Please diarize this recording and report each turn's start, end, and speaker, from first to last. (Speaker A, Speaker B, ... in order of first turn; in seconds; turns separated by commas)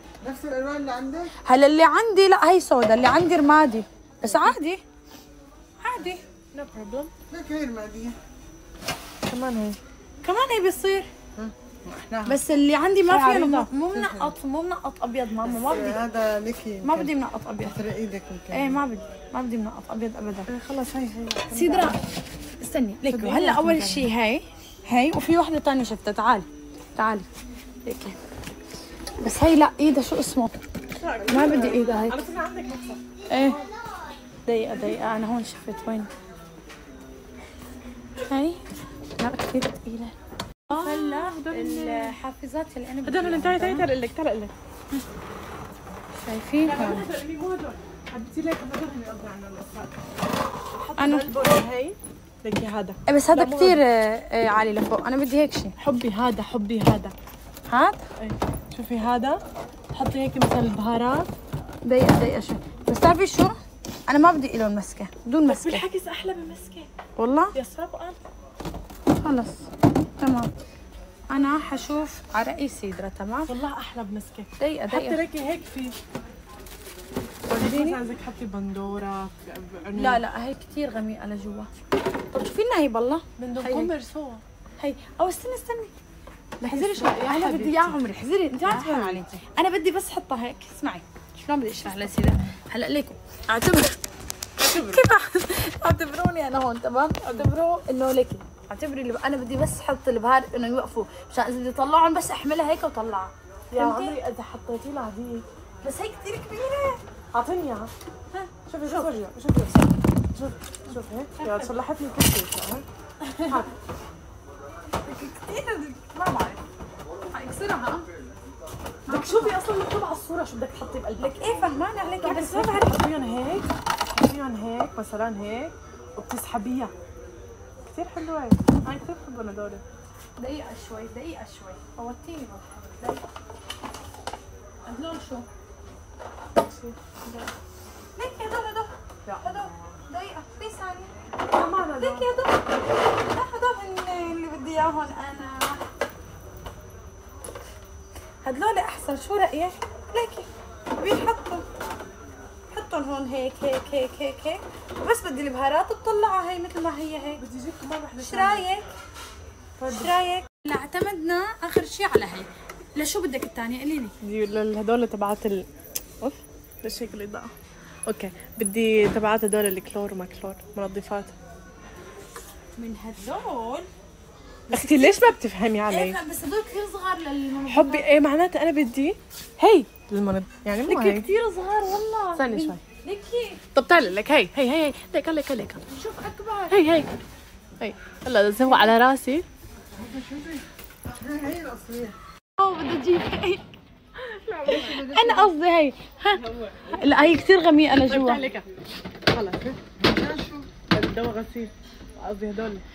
Speaker A: 0.2-1.3, Speaker B: 1.4-4.8, Speaker B: 5.8-6.2, Speaker C: 6.5-7.1, Speaker A: 7.3-8.2, Speaker C: 9.3-9.8, Speaker B: 10.2-11.1, Speaker A: 11.3-12.4, Speaker B: 12.2-16.0, Speaker C: 13.1-13.7, Speaker A: 14.0-14.3, Speaker A: 15.7-17.1, Speaker B: 16.8-17.8, Speaker A: 17.8-18.8, Speaker B: 18.5-20.5, Speaker C: 20.5-22.0, Speaker B: 21.5-22.0, Speaker B: 22.6-27.3, Speaker C: 23.1-24.1, Speaker B: 27.8-28.2, Speaker B: 29.2-30.5, Speaker C: 31.0-33.0, Speaker B: 31.2-32.3, Speaker B: 33.3-33.6, Speaker B: 34.5-36.1, Speaker B: 38.3-38.6, Speaker B: 39.2-40.1, Speaker C: 40.7-42.1, Speaker B: 40.7-43.9, Speaker C: 43.0-44.5, Speaker B: 46.2-47.1, Speaker C: 46.6-49.9, Speaker C: 50.8-53.8, Speaker B: 51.0-51.3, Speaker B: 53.1-55.7, Speaker C: 55.8-57.1, Speaker B: 57.7-58.0, Speaker C: 58.2-59.4, Speaker C: 59.9-61.3, Speaker B: 61.8-63.5, Speaker B: 64.1-65.8, Speaker C: 65.5-66.9, Speaker B: 67.2-67.5, Speaker C: 67.5-68.2, Speaker B: 69.1-69.6, Speaker B: 70.2-70.5, Speaker B: 71.3-73.5, Speaker C: 73.5-76.0, Speaker B: 74.6-75.2, Speaker B: 77.5-78.0, Speaker C: 77.5-80.2, Speaker B: 79.9-81.7, Speaker B: 82.3-83.9, Speaker C: 83.4-84.4, Speaker B: 84.8-85.9, Speaker C: 86.6-88.0, Speaker B: 86.6-94.0, Speaker C: 88.6-89.3, Speaker C: 94.6-95.0, Speaker B: 94.6-104.2, Speaker C: 97.2-97.5, Speaker C: 103.7-105.4, Speaker B: 105.8-107.0, Speaker C: 107.3-107.9, Speaker B: 108.3-109.1, Speaker C: 108.7-112.8, Speaker B: 111.4-111.7, Speaker B: 113.2-113.6, Speaker B: 115.0-116.6, Speaker B: 117.3-118.0, Speaker B: 119.1-119.6, Speaker C: 119.1-121.6, Speaker B: 121.2-123.0, Speaker C: 122.2-126.9, Speaker C: 127.9-129.8, Speaker B: 130.4-133.2, Speaker B: 134.8-135.4, Speaker C: 136.6-137.3, Speaker B: 138.2-141.1, Speaker C: 139.2-139.6, Speaker C: 141.5-142.3, Speaker B: 141.8-145.8, Speaker B: 148.4-151.7, Speaker B: 152.7-157.4, Speaker C: 157.4-158.6, Speaker B: 158.2-158.8, Speaker C: 159.8-160.1, Speaker B: 159.9-164.1, Speaker C: 164.2-165.7, Speaker C: 166.2-167.5, Speaker C: 168.1-171.3, Speaker B: 172.8-173.9, Speaker B: 174.7-175.2, Speaker C: 174.7-176.2, Speaker B: 175.9-178.1, Speaker C: 177.7-181.3, Speaker B: 180.8-183.6, Speaker C: 182.3-182.8, Speaker C: 183.7-185.8, Speaker B: 185.9-186.8, Speaker C: 186.7-187.1, Speaker C: 187.8-189.4, Speaker A: 190.0-190.6, Speaker A: 191.2-192.1, Speaker B: 192.6-193.6, Speaker C: 194.2-195.2, Speaker B: 194.7-198.4, Speaker A: 194.8-195.5, Speaker C: 198.1-198.7, Speaker C: 199.3-199.8, Speaker A: 199.9-200.7, Speaker C: 200.9-202.8